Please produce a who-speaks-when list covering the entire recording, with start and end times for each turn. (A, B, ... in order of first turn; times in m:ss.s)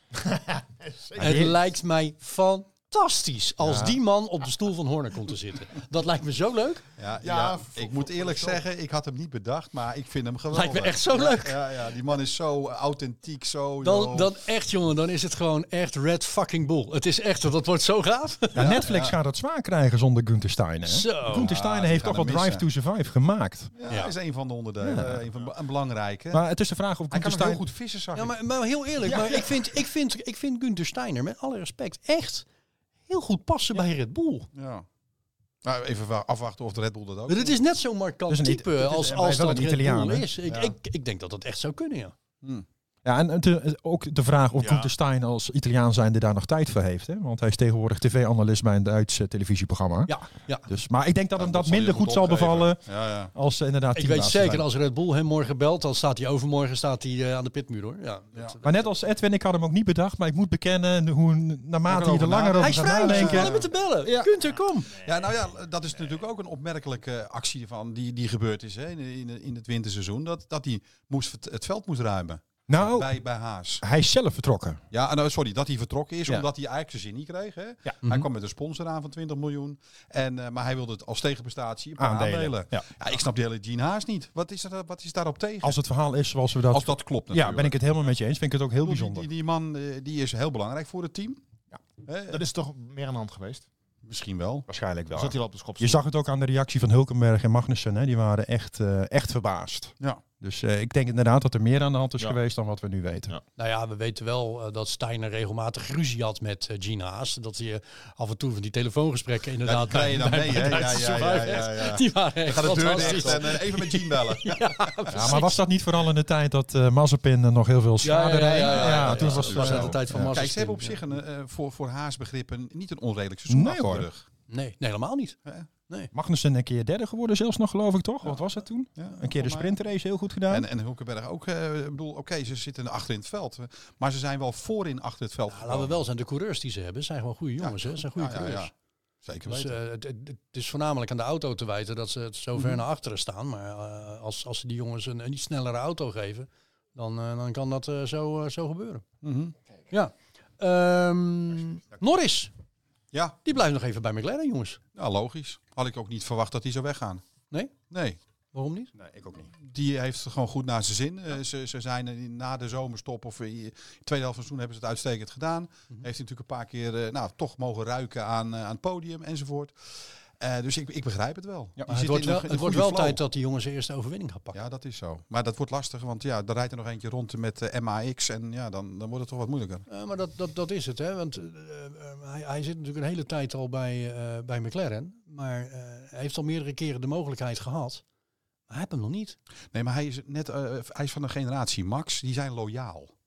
0:00.1-0:01.5 A
0:01.2-0:01.6 B
0:01.2-0:06.8 C
0:03.6-0:04.0 B
0:07.0-0:14.4 D
0:07.2-0:08.6 A
0:10.5-0:11.7 C
0:13.8-0:18.8 C
0:18.5-0:23.7 B
0:18.6-0:19.2 D
0:20.8-0:21.5 C
0:21.3-0:22.6 D
0:23.7-0:26.4 D
0:23.9-0:24.1 C
0:24.8-0:25.2 B
0:26.3-0:27.6 B
0:27.1-0:28.4 D
0:28.1-0:32.4 C
0:29.0-0:29.4 B
0:33.1-0:34.5 C
0:34.5-0:34.8 D
0:35.6-0:37.6 D
0:37.3-0:42.2 C
0:38.3-0:40.3 B
0:40.5-0:40.7 D
0:43.0-0:50.1 B
0:44.6-0:44.9 A
0:50.1-0:50.7 C
0:50.6-0:52.8 B
0:51.4-0:53.3 D
0:53.3-0:54.6 B
0:53.9-0:58.8 C
0:58.6-1:04.3 B
1:01.9-1:03.7 D
1:02.6-1:05.0 C
1:04.9-1:05.3 A
1:04.9-1:13.8 D
1:12.7-1:13.1 B
1:13.8-1:14.8 B
1:14.9-1:25.8 D
1:22.0-1:22.8 B
1:25.6-1:29.3 B
1:26.7-1:27.8 D
1:28.8-1:31.4 D
1:32.0-1:32.4 D
1:32.3-1:33.6 A
1:34.0-1:34.7 D
1:34.7-1:43.3 B
1:35.1-1:36.0 A
1:43.6-1:55.6 C
1:49.6-1:55.4 D
1:55.1-2:00.3 B
1:58.0-2:01.0 C
1:58.5-2:04.2 D
2:03.5-2:04.1 B
2:04.5-2:05.4 C
2:06.1-2:10.7 B
2:09.0-2:09.7 D
2:10.5-2:16.0 D
2:15.5-2:18.7 C
2:17.6-2:18.7 D
2:19.2-2:19.8 D
2:19.5-2:29.0 C
2:22.6-2:22.8 D
2:29.2-2:29.5 D
2:29.9-2:32.5 C
2:33.1-2:33.4 D
2:33.4-2:34.8 C
2:35.0-2:37.2 D
2:37.9-2:38.2 D
2:38.5-2:38.9 C
2:38.9-2:39.5 B
2:39.6-2:53.2 D
2:51.9-2:54.6 C
2:54.5-2:59.8 D
2:59.9-3:08.0 C
3:08.7-3:09.4 C
3:09.7-3:13.1 D